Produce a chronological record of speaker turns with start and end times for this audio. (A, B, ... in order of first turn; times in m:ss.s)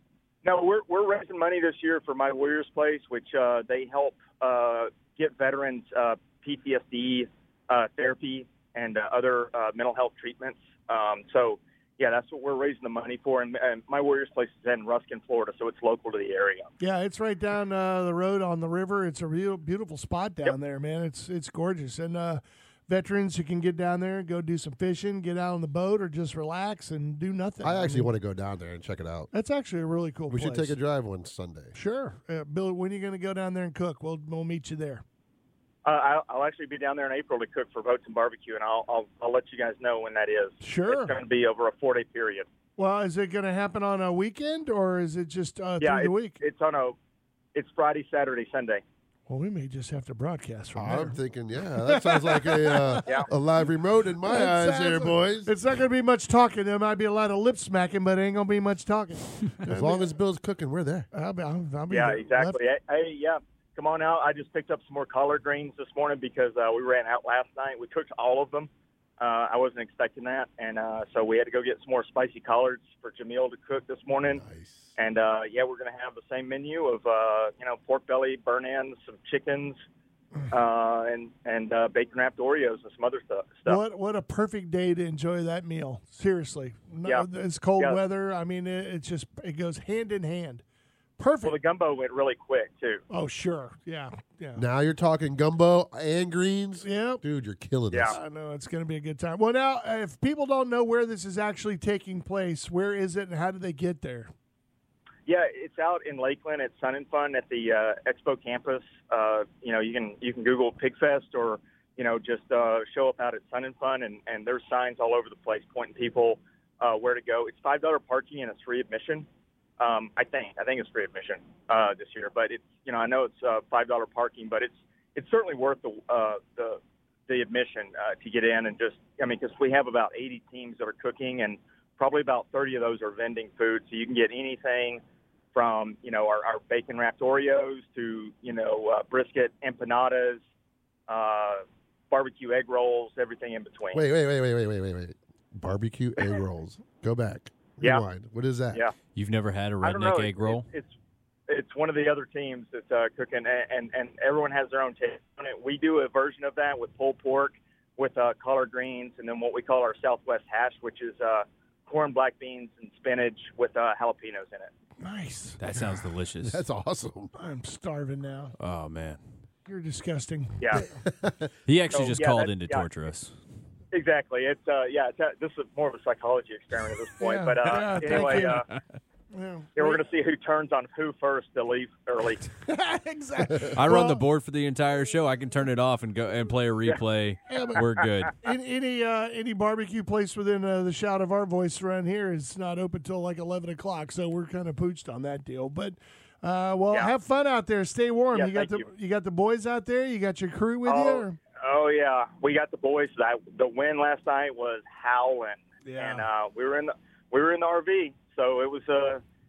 0:00.4-0:16.7 A
0:16.8-0:28.1 B
0:27.6-0:29.3 C
0:29.3-0:30.8 B
0:30.3-0:31.8 C
0:31.8-0:35.0 B
0:35.8-0:42.5 A
0:40.6-0:41.2 B
0:42.8-0:46.4 B
0:45.8-0:47.0 A
0:47.6-0:48.8 A
0:49.3-0:51.2 B
0:50.8-0:55.5 C
0:51.8-0:53.3 B
0:54.2-1:00.2 B
0:59.7-1:01.1 C
1:01.1-1:02.6 B
1:01.9-1:08.7 A
1:09.2-1:14.4 A
1:14.3-1:14.9 C
1:15.0-1:19.8 A
1:20.5-1:23.8 A
1:23.7-1:30.6 B
1:31.2-1:31.6 B
1:31.4-1:33.0 A
1:33.1-1:34.6 B
1:34.6-1:38.2 C
1:36.8-1:37.2 B
1:37.9-1:38.2 A
1:38.1-1:44.3 B
1:45.3-1:59.2 A
1:59.8-2:15.0 A
2:15.5-2:20.4 A
2:21.1-2:24.0 A
2:23.9-2:28.8 C
2:29.2-2:30.7 D
2:29.8-2:30.9 A
2:31.5-2:44.7 A
2:45.0-2:45.7 B
2:45.6-2:46.6 D
2:46.4-2:47.3 C
2:47.4-2:48.6 B
2:48.6-2:49.2 D
2:49.7-2:50.8 B
2:51.0-2:51.5 C
2:51.7-2:53.3 D
2:51.9-2:52.9 A
2:53.9-2:58.7 A
2:57.2-2:58.6 B
2:58.5-2:58.8 D
2:59.3-3:00.0 B
2:59.8-3:02.5 A
3:02.7-3:04.2 B
3:03.7-3:08.4 D
3:07.5-3:21.4 B
3:18.3-3:18.9 A
3:20.9-3:29.2 A
3:25.8-3:26.2 B